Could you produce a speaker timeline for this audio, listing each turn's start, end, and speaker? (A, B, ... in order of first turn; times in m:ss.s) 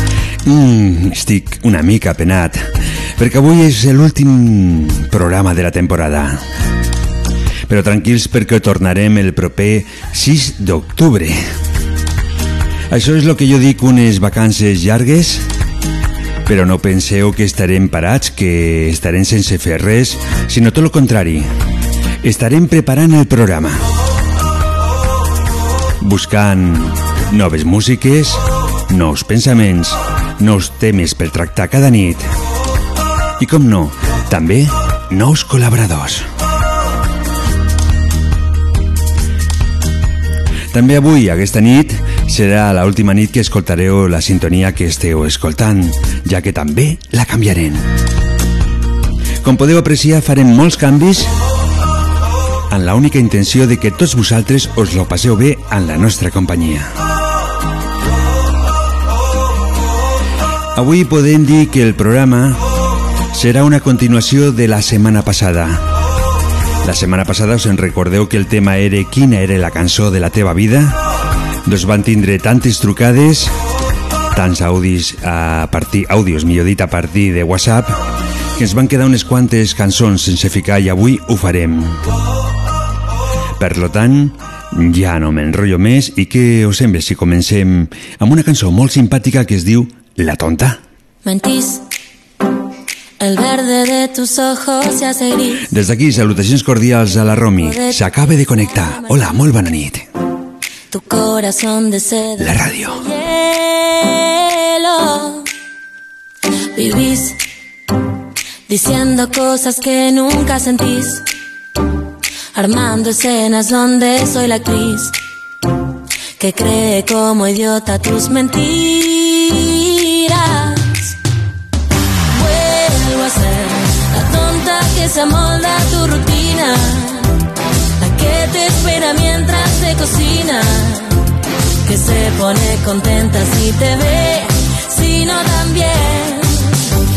0:00.4-0:02.7 A
0:03.2-0:06.4 A
0:07.7-0:11.4 A
0:12.9-0:15.4 A
0:16.4-0:21.5 A
0:22.2-0:23.8 A
0:26.0-0:32.3 A
0:33.4-0:36.2 A
0:40.7-0:47.8 A
0:49.4-0:51.3 A
0:52.7-0:56.9 A
1:00.7-1:02.6 A
1:03.3-1:05.8 A
1:06.8-1:11.0 A
1:11.6-1:13.5 A
1:14.3-1:18.0 A
1:18.6-1:22.0 A
1:23.6-1:30.8 A
1:31.2-1:31.8 B
1:33.2-1:35.7 B
1:35.7-1:40.0 A
1:37.3-1:39.1 B
1:40.9-1:45.5 B
1:42.4-1:43.0 A
1:46.7-1:47.4 B
1:48.7-1:51.2 B
1:52.5-1:55.1 B
1:56.4-2:01.1 B
2:02.3-2:07.3 B
2:08.0-2:11.2 B
2:11.8-2:16.8 B